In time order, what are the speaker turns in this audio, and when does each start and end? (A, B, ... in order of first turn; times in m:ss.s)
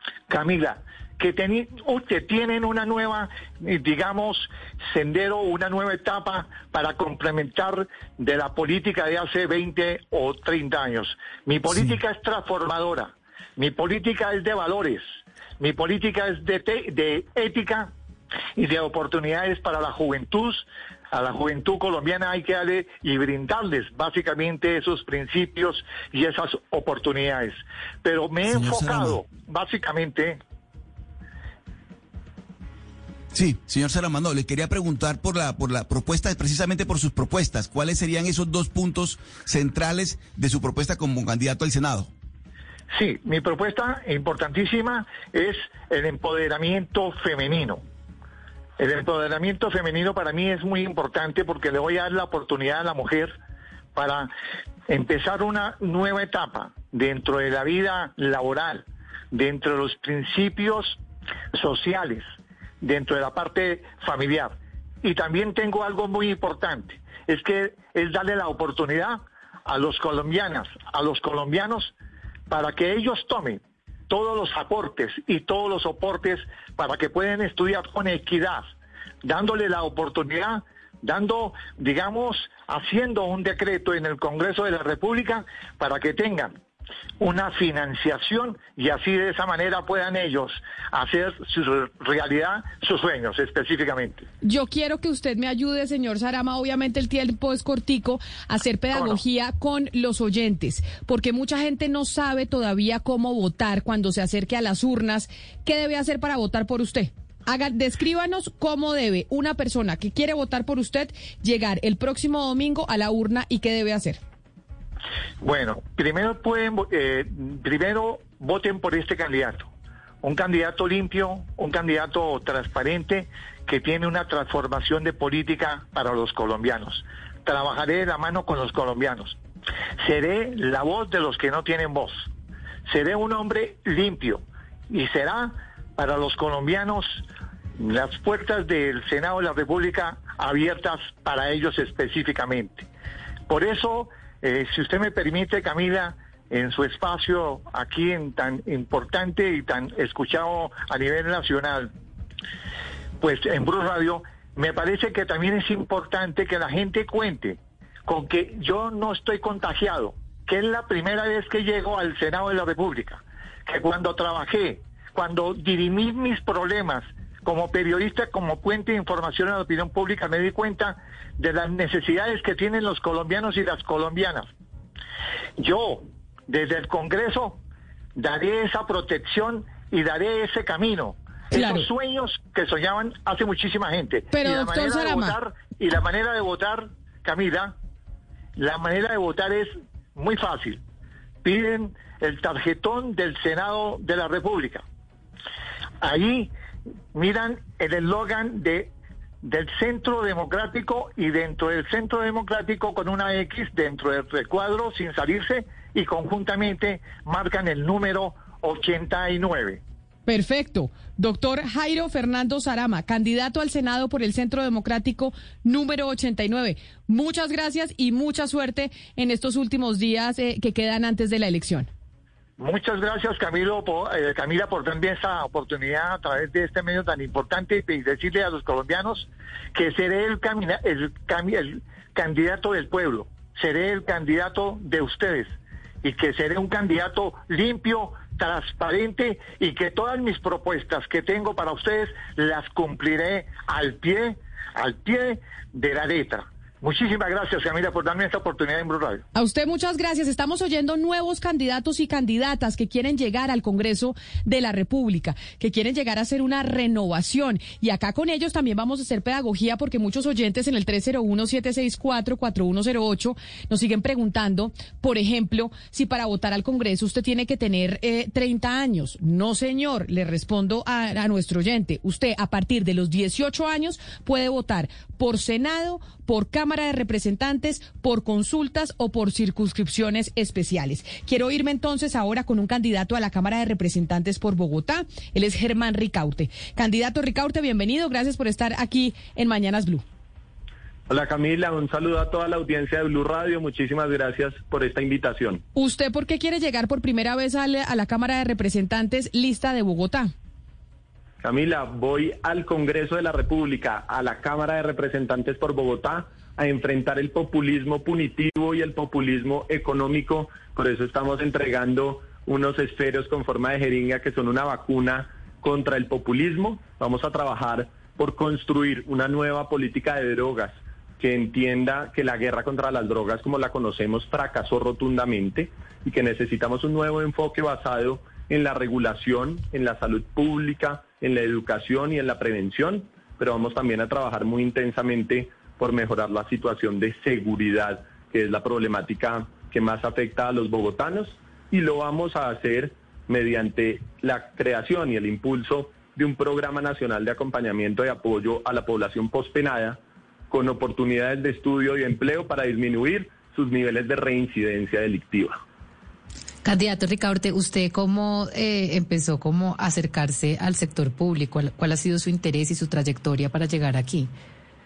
0:00.3-0:15.0 A
0:15.6-0:17.9 A
0:18.6-0:30.4 A
0:28.5-0:29.2 B
0:33.3-0:42.1 B
0:42.9-0:47.8 A
0:48.8-0:53.3 A
0:53.9-0:54.3 A
0:54.9-1:01.0 A
1:01.5-1:02.2 A
1:02.8-1:11.9 A
1:12.5-1:18.7 A
1:19.2-1:26.5 A
1:27.2-1:34.3 A
1:34.4-1:54.2 C
1:38.9-1:39.2 A
1:55.4-1:59.7 A
2:00.2-2:09.4 A
2:10.0-2:12.3 A
2:12.9-2:17.2 A
2:17.8-2:22.9 A
2:23.5-2:31.9 A
2:33.2-2:54.5 A
2:55.6-2:57.6 A
2:58.2-3:07.8 A
3:01.5-3:01.9 C
3:04.3-3:05.4 C
3:08.6-3:10.8 A
3:11.4-3:14.8 A
3:16.0-3:16.5 A
3:17.1-3:18.9 A
3:19.4-3:29.8 A
3:30.3-3:41.9 C
3:42.6-3:55.5 A
3:56.0-4:09.2 A
4:09.3-4:50.0 C
4:51.1-4:55.6 D
4:55.8-5:00.3 C
5:01.4-5:50.0 D
5:50.5-5:55.6 D
5:56.6-6:04.3 E